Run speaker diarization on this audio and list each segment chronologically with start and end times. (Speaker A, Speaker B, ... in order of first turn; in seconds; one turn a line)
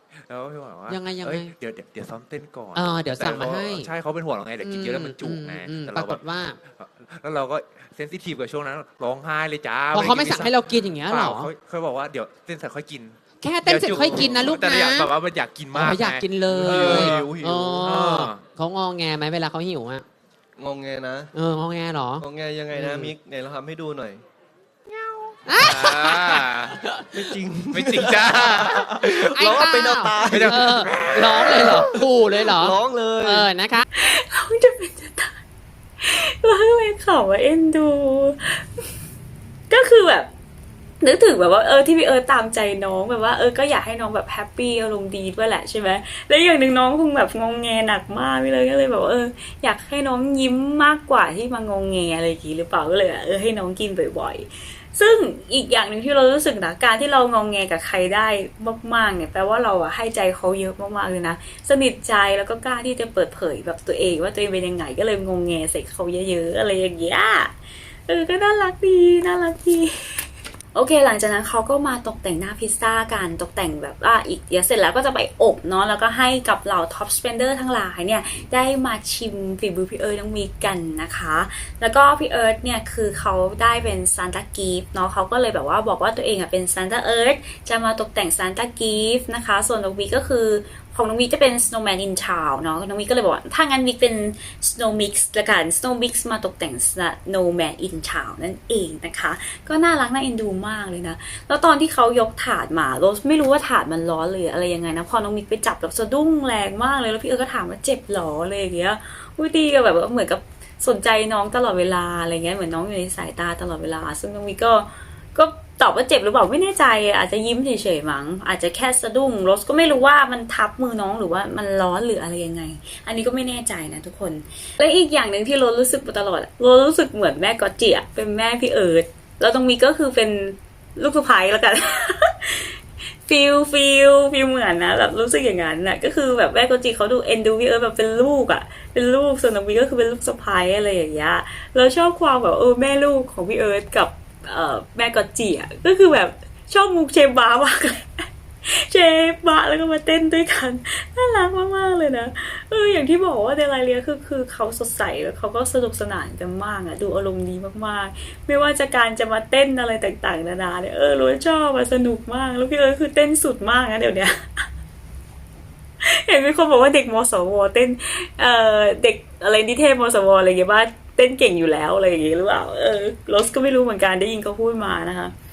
Speaker A: 0.2-18.4
Speaker B: 0.9-1.5
Speaker B: 2.7-3.9
Speaker B: 4.6-6.6
Speaker B: 9.9-11.5
Speaker B: 13.4-15.1
Speaker C: 14.1-14.5
Speaker B: 15.7-20.0
Speaker C: 16.5-17.8
Speaker C: 20.6-21.3
Speaker B: 21.3-23.1
Speaker C: 22.2-24.2
Speaker B: 25.4-27.0
Speaker A: 25.6-26.8
Speaker C: 27.1-33.5
Speaker A: 27.7-29.4
Speaker B: 29.1-33.9
Speaker A: 30.3-32.0
Speaker D: 33.9-35.3
Speaker D: 36.0-38.7
Speaker D: 39.7-40.3
Speaker D: 41.0-67.5
Speaker D: 68.1-132.8
Speaker D: 133.3-164.6
Speaker D: 166.0-175.3